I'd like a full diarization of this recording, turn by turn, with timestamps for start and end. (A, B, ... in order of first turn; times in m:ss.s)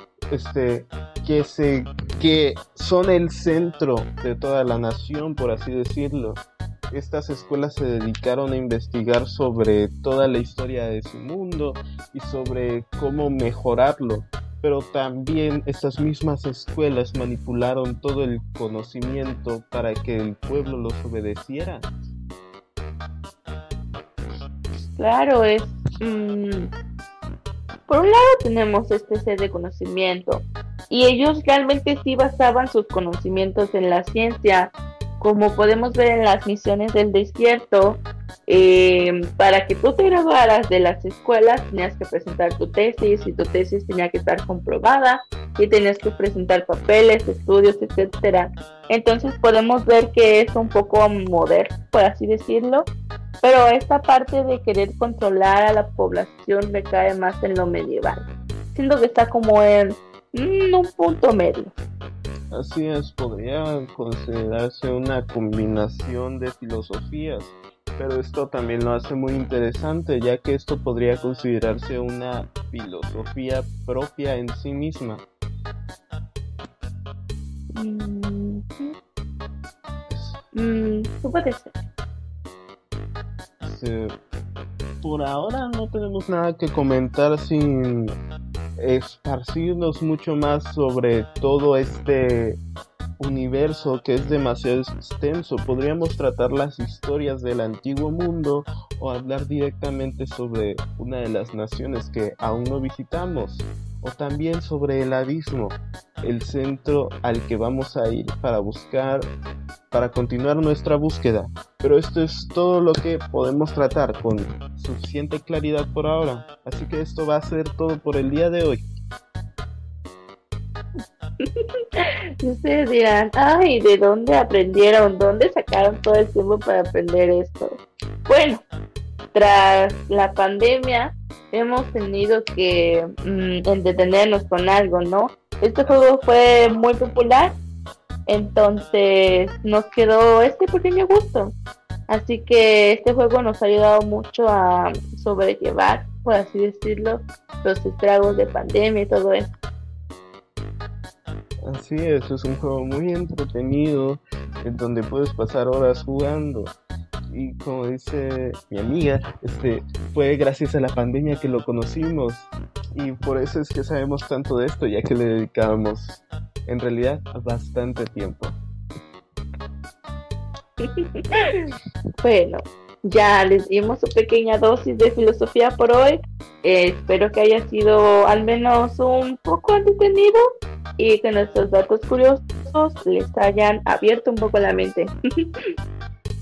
0:00.3-0:21.9 A
0:25.0-0:26.7 B
0:27.9-0:52.9 B
0:53.4-1:01.7 B
1:02.5-1:15.2 A
1:17.7-1:18.9 B
1:20.1-1:20.4 A
1:20.5-1:21.8 B
1:23.6-1:24.1 A
1:25.0-1:28.1 A
1:28.8-1:32.6 A
1:33.2-1:49.3 A
1:49.9-1:58.8 A
2:01.4-2:08.6 B
2:09.3-2:17.6 B
2:18.3-2:21.5 B
2:22.1-2:29.5 B
2:31.6-2:36.7 A
2:37.3-2:48.6 A
2:50.8-3:00.4 B
3:01.0-3:05.7 B